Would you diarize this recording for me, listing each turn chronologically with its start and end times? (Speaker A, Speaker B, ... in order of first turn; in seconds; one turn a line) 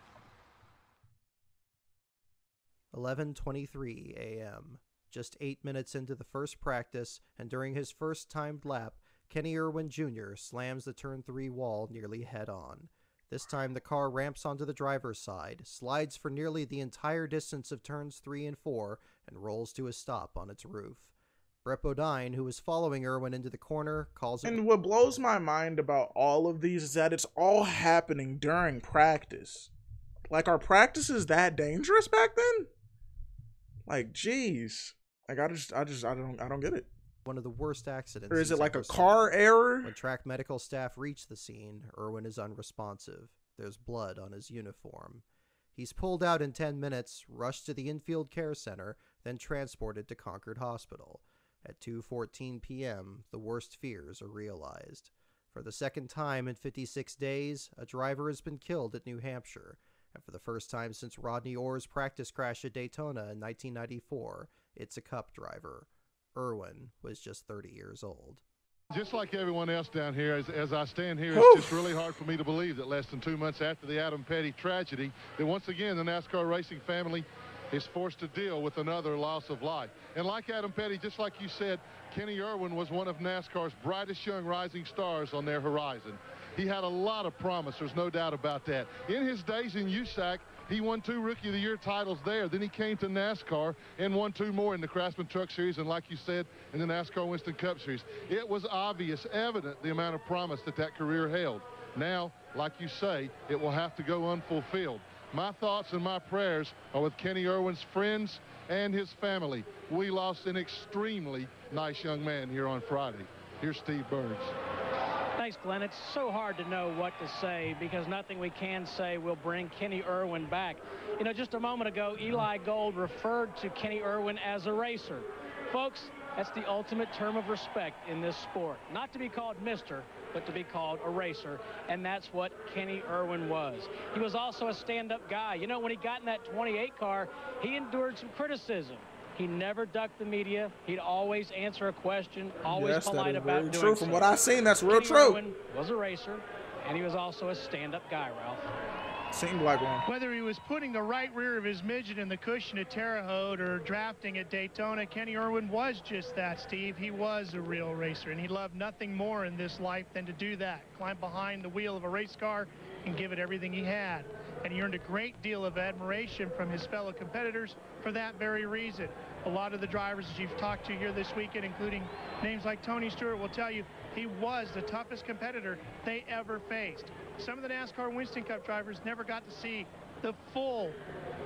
Speaker A: 2.9-21.1
Speaker A: 21.6-24.6
Speaker B: 24.4-29.7
Speaker B: 30.3-32.7
Speaker B: 33.9-36.9
Speaker A: 37.2-39.3
Speaker B: 38.3-39.9
Speaker A: 39.8-45.2
Speaker A: 45.8-68.4
Speaker C: 68.9-114.5
Speaker B: 71.3-71.8
Speaker D: 115.4-148.7
Speaker B: 142.7-145.4
Speaker B: 149.3-150.0
Speaker E: 150.1-181.0